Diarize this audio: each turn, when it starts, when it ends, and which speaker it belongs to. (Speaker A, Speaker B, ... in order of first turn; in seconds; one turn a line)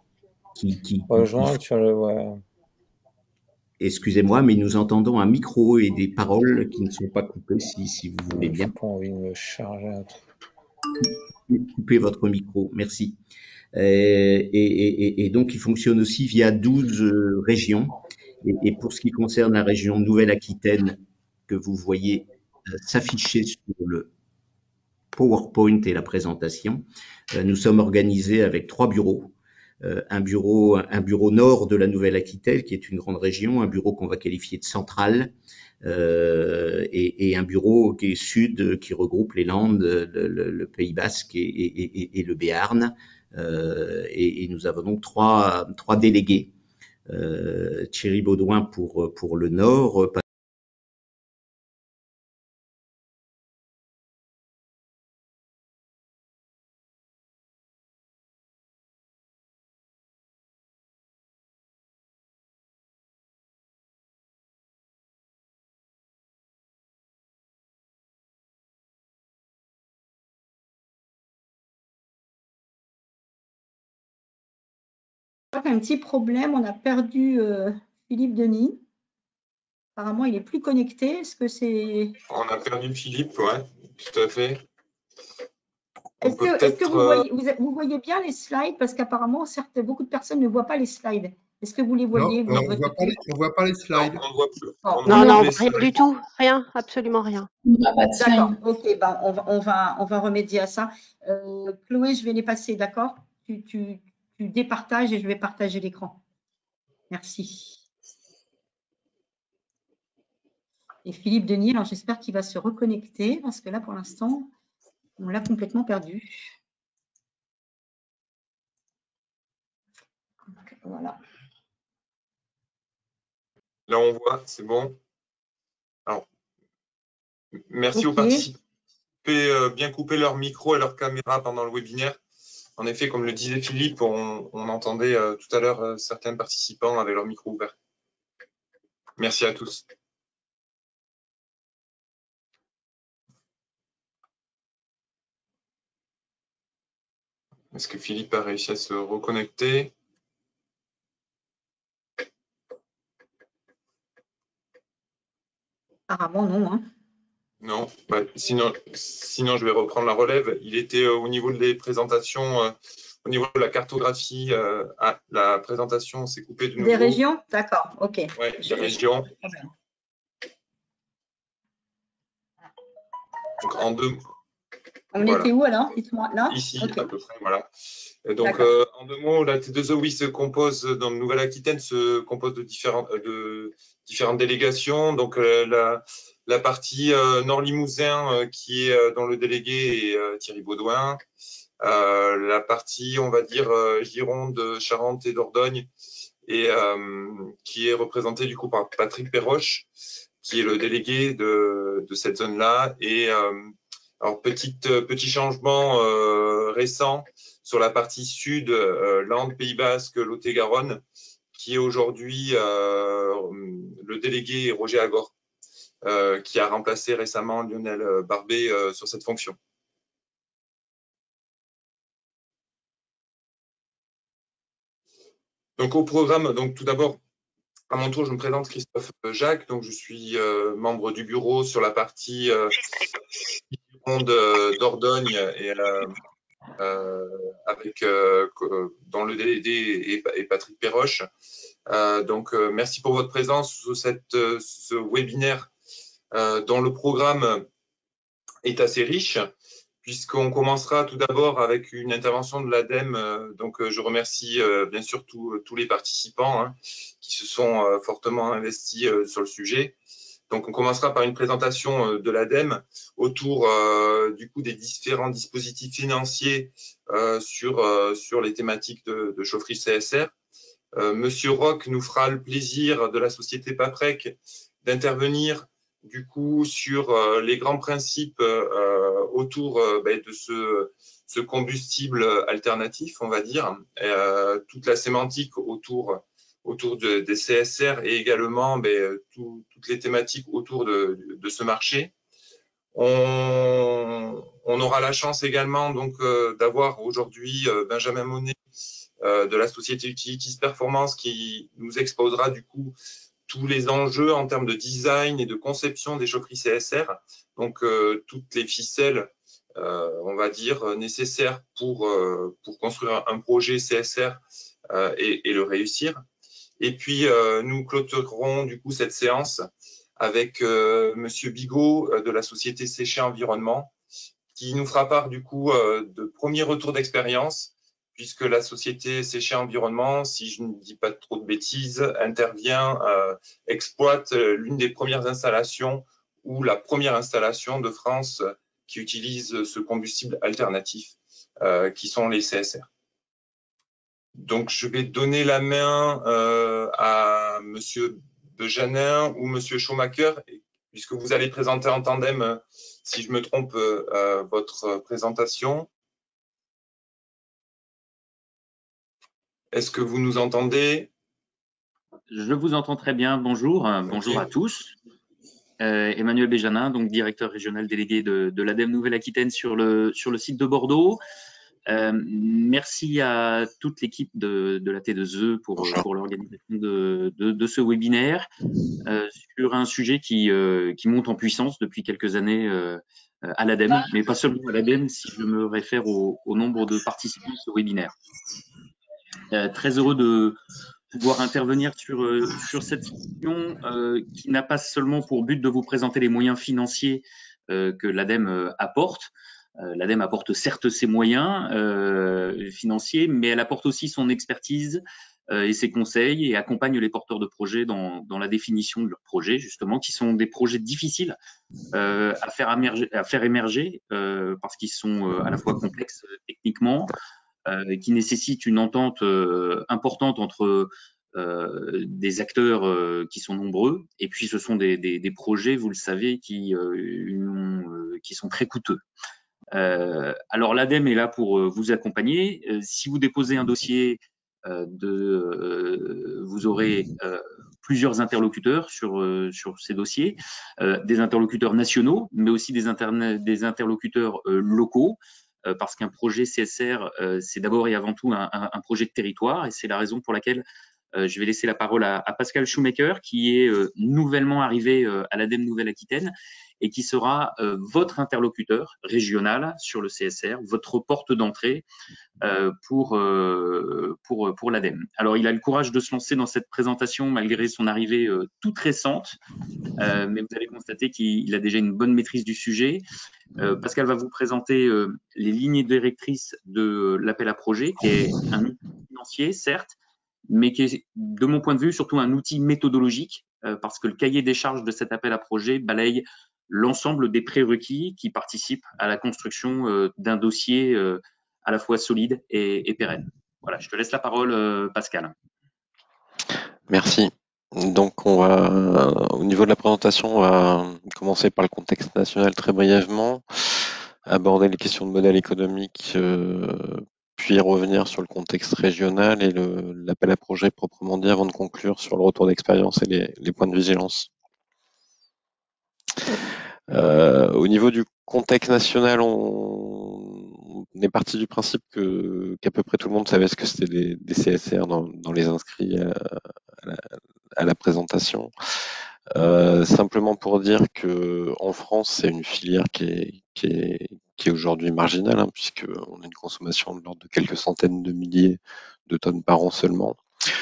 Speaker A: 0.6-1.6
Speaker B: 1.1-2.4
Speaker A: 3.8-8.7
Speaker B: 8.3-10.2
Speaker A: 11.5-13.2
Speaker A: 13.7-24.1
Speaker A: 25.1-46.5
Speaker A: 47.1-50.2
Speaker C: 75.5-78.8
Speaker C: 80.0-82.2
Speaker D: 82.3-84.6
Speaker D: 86.2-87.3
Speaker C: 86.2-93.2
Speaker E: 92.1-94.2
Speaker D: 93.9-96.1
Speaker C: 94.8-95.5
Speaker F: 95.1-97.5
Speaker C: 98.1-106.2
Speaker C: 107.1-107.8
Speaker C: 111.0-114.5
Speaker C: 115.2-116.5
Speaker C: 120.6-121.2
Speaker D: 123.9-125.0
Speaker D: 127.7-128.6
Speaker C: 127.9-128.5
Speaker D: 129.2-132.2
Speaker D: 132.8-137.8
Speaker D: 139.2-139.9
Speaker D: 147.7-149.9
Speaker C: 156.1-156.8
Speaker D: 157.6-167.2
Speaker C: 166.8-169.7
Speaker D: 168.4-169.3
Speaker D: 173.6-174.2
Speaker C: 175.1-177.1
Speaker D: 175.2-175.5
Speaker D: 176.5-177.7
Speaker D: 178.2-191.2
Speaker C: 178.4-178.7
Speaker D: 191.8-195.9
Speaker D: 196.5-199.9
Speaker D: 200.4-211.0
Speaker D: 211.5-215.3
Speaker D: 216.0-219.6
Speaker D: 225.8-227.2
Speaker D: 227.9-232.8
Speaker D: 233.7-236.1
Speaker D: 236.8-241.3
Speaker D: 241.9-245.7
Speaker D: 246.3-247.7
Speaker D: 248.6-249.5
Speaker D: 250.0-260.0
Speaker D: 260.5-270.3
Speaker D: 271.0-292.1
Speaker D: 292.9-298.6
Speaker D: 299.2-303.0
Speaker D: 303.5-316.2
Speaker D: 316.8-319.7
Speaker D: 320.2-323.9
Speaker D: 324.6-342.9
Speaker D: 344.4-355.9
Speaker D: 359.7-361.1
Speaker G: 362.3-364.9
Speaker D: 364.1-364.4
Speaker G: 365.8-371.2
Speaker G: 371.9-378.5
Speaker G: 379.0-388.1
Speaker G: 389.5-390.6
Speaker G: 391.1-411.4
Speaker G: 411.9-417.1
Speaker G: 417.7-429.0
Speaker G: 429.7-450.6
Speaker G: 451.2-461.9
Speaker G: 462.4-469.4
Speaker G: 470.0-473.1
Speaker G: 473.6-480.0
Speaker G: 480.5-495.3
Speaker H: 496.9-514.3
Speaker H: 516.9-528.5
Speaker H: 529.3-540.2